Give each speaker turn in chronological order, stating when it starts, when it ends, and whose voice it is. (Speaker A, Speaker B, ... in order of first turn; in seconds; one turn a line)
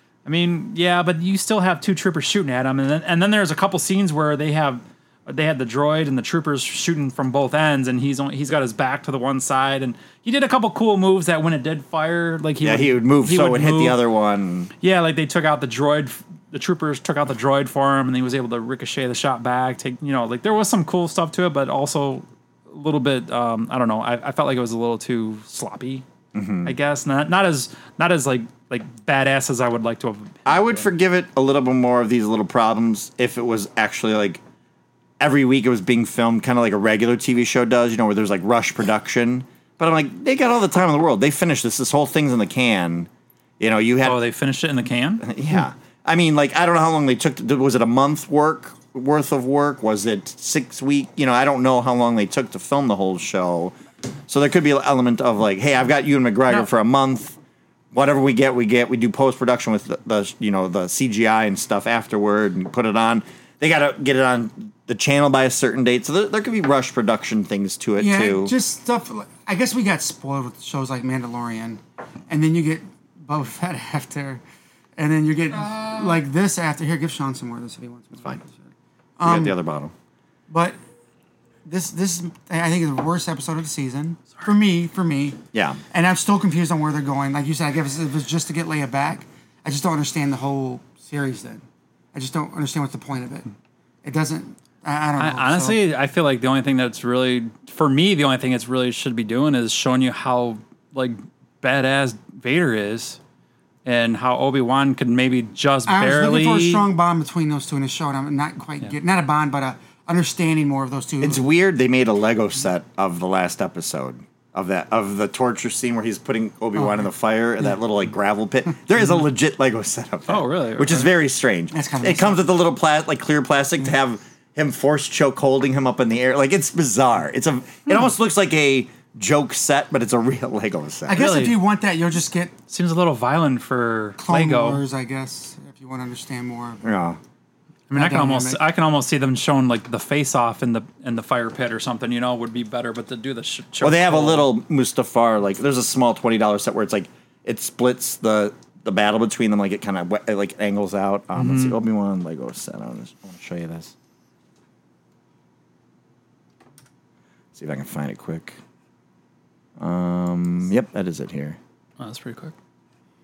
Speaker A: 0.2-14.0
Speaker B: 12.6-14.7
Speaker A: 14.8-26.0
Speaker B: 26.3-26.7
Speaker A: 26.6-30.9
Speaker B: 30.5-34.4
Speaker B: 35.2-43.1
Speaker B: 43.6-44.2
Speaker A: 44.0-45.2
Speaker B: 45.2-53.7
Speaker B: 54.3-57.4
Speaker B: 57.9-68.5
Speaker C: 68.0-74.4
Speaker C: 75.0-78.6
Speaker C: 79.2-79.6
Speaker B: 79.2-79.9
Speaker C: 80.5-80.8
Speaker C: 81.7-85.4
Speaker B: 85.5-85.8
Speaker C: 85.9-91.6
Speaker C: 92.1-93.5
Speaker C: 94.0-95.8
Speaker A: 95.2-103.2
Speaker A: 103.8-106.8
Speaker C: 105.9-111.4
Speaker B: 111.2-131.3
Speaker A: 120.3-121.1
Speaker C: 121.7-122.4
Speaker C: 131.1-132.5
Speaker A: 131.1-131.6
Speaker A: 132.7-134.8
Speaker C: 134.2-136.8
Speaker B: 136.8-137.2
Speaker A: 137.9-144.5
Speaker C: 137.9-138.6
Speaker B: 143.8-153.9
Speaker A: 151.3-151.8
Speaker B: 157.5-158.6
Speaker B: 159.8-161.6
Speaker A: 162.0-162.5